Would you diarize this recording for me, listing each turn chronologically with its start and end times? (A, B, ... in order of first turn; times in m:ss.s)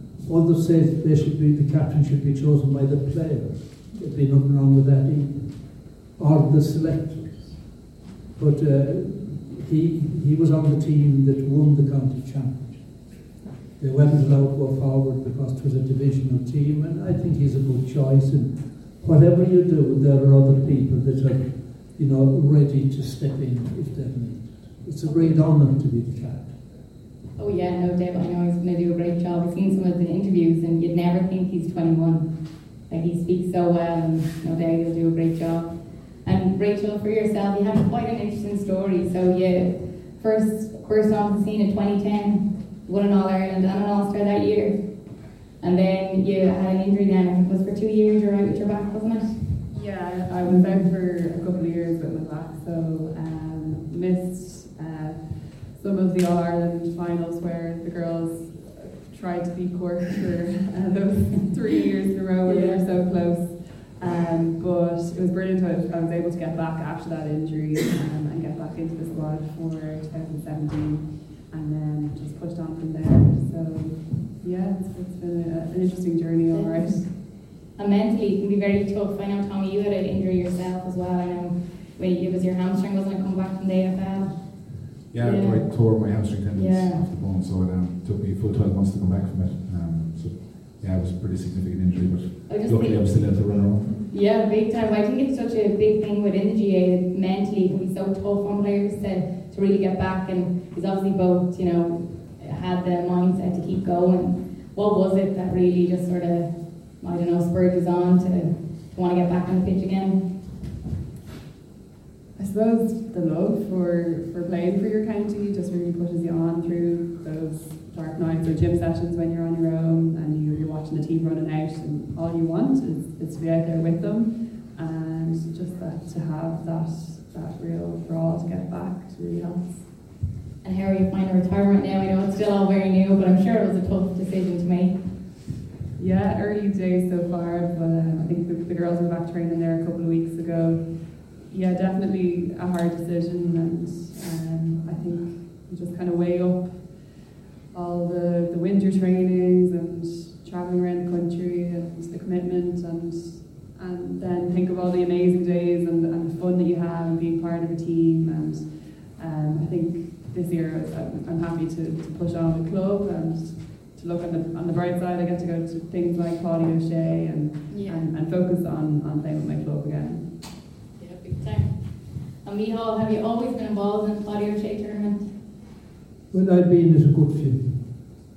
0:00.2-0:13.0 A
0:13.8-0:26.6 A
0:25.1-0:25.4 B
0:27.4-0:32.3 B
0:32.9-0:44.8 B
0:45.6-0:49.6 B
0:49.7-1:17.1 C
0:50.4-0:50.9 B
1:02.5-1:02.8 B
1:16.5-1:25.7 B
1:25.1-1:34.0 D
1:26.5-1:27.0 B
1:32.5-1:33.2 B
1:34.1-1:50.2 B
1:52.4-2:09.9 C
2:10.6-2:15.0 B
2:16.0-2:50.3 C
2:47.7-2:48.1 B
2:51.0-2:55.3 B
2:56.3-2:58.0 A